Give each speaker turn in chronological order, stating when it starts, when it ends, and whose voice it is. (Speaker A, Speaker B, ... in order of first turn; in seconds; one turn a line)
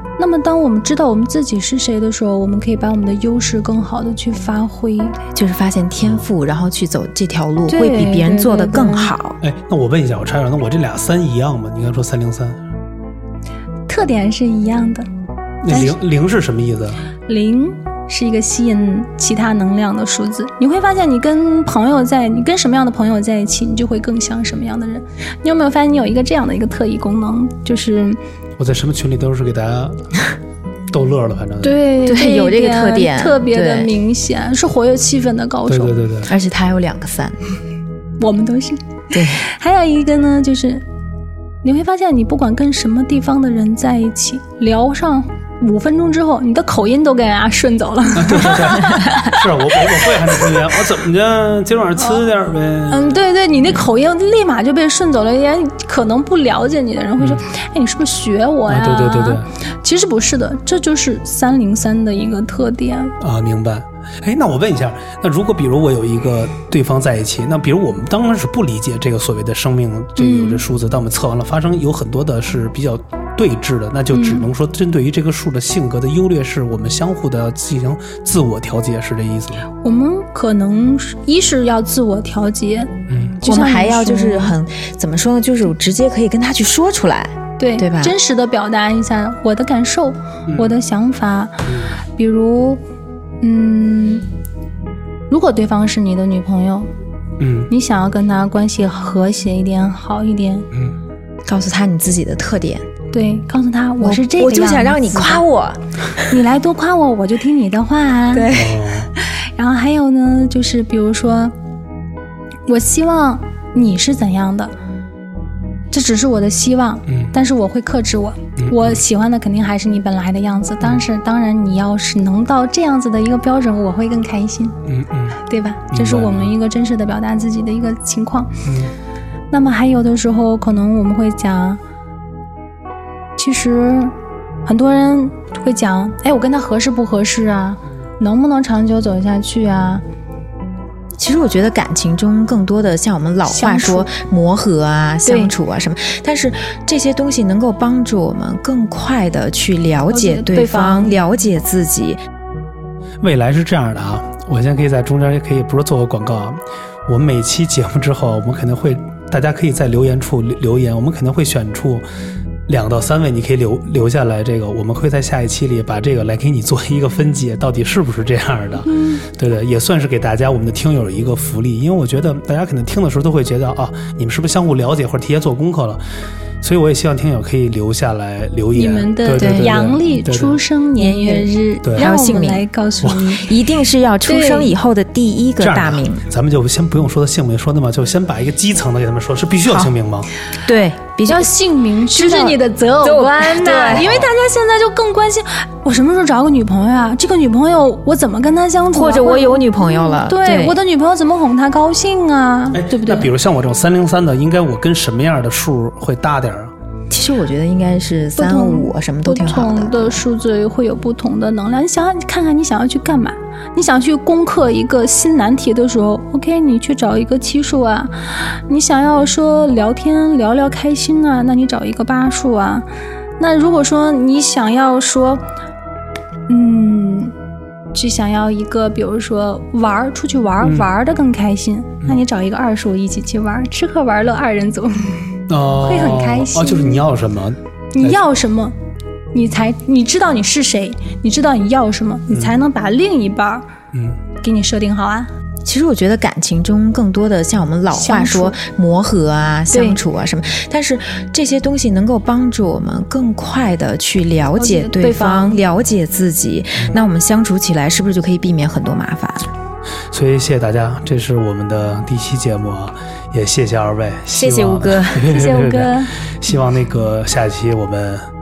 Speaker A: 0.2-5.2
Speaker B: 5.3-9.4
Speaker A: 7.7-9.1
Speaker C: 9.4-12.6
Speaker A: 13.9-15.1
Speaker C: 15.6-17.0
Speaker A: 15.7-15.9
Speaker A: 17.3-28.2
Speaker C: 28.6-30.3
Speaker C: 30.9-31.8
Speaker A: 31.6-36.0
Speaker B: 32.0-33.9
Speaker C: 35.7-36.3
Speaker B: 36.2-37.4
Speaker A: 38.2-40.8
Speaker B: 39.1-39.4
Speaker A: 41.6-50.7
Speaker C: 48.2-53.2
Speaker A: 52.9-63.1
Speaker C: 58.7-59.5
Speaker C: 63.2-79.6
Speaker A: 70.2-70.6
Speaker A: 74.1-74.4
Speaker A: 79.8-84.5
Speaker C: 83.1-83.4
Speaker B: 83.4-88.1
Speaker A: 87.6-92.8
Speaker C: 90.5-90.7
Speaker C: 91.7-92.0
Speaker A: 93.4-94.2
Speaker A: 95.3-96.9
Speaker C: 97.4-97.7
Speaker A: 97.7-100.7
Speaker B: 101.5-102.8
Speaker A: 103.1-105.4
Speaker B: 104.0-105.8
Speaker A: 106.3-108.5
Speaker B: 108.3-108.8
Speaker C: 108.5-109.1
Speaker A: 109.2-111.5
Speaker A: 112.7-114.7
Speaker A: 115.9-124.8
Speaker C: 118.6-119.0
Speaker C: 124.8-125.4
Speaker A: 125.4-128.7
Speaker C: 125.9-126.5
Speaker C: 128.6-128.9
Speaker A: 129.5-131.8
Speaker A: 133.4-134.1
Speaker A: 134.6-140.0
Speaker B: 141.2-152.2
Speaker A: 143.4-144.1
Speaker A: 145.2-145.5
Speaker A: 150.1-151.2
Speaker C: 153.2-162.0
Speaker C: 162.7-176.0
Speaker A: 168.9-169.2
Speaker C: 176.6-180.6
Speaker A: 178.7-183.5
Speaker B: 179.4-179.8
Speaker B: 181.0-182.6
Speaker B: 183.3-186.2
Speaker A: 184.2-184.7
Speaker C: 185.6-190.3
Speaker B: 189.7-189.9
Speaker B: 190.6-194.2
Speaker A: 191.3-203.3
Speaker C: 193.9-194.3
Speaker B: 198.9-200.8
Speaker C: 202.7-206.7
Speaker B: 207.1-210.2
Speaker A: 208.3-222.9
Speaker A: 223.4-225.4
Speaker A: 226.5-227.3
Speaker A: 227.9-237.0
Speaker C: 230.6-230.9
Speaker C: 235.5-238.2
Speaker A: 237.9-238.8
Speaker A: 239.3-243.7
Speaker C: 242.3-242.5
Speaker C: 243.9-244.2
Speaker A: 244.3-245.3
Speaker B: 245.6-259.5
Speaker A: 247.9-248.6
Speaker A: 249.7-250.0
Speaker A: 254.6-255.6
Speaker C: 260.1-268.3
Speaker B: 264.4-265.3
Speaker A: 265.2-266.1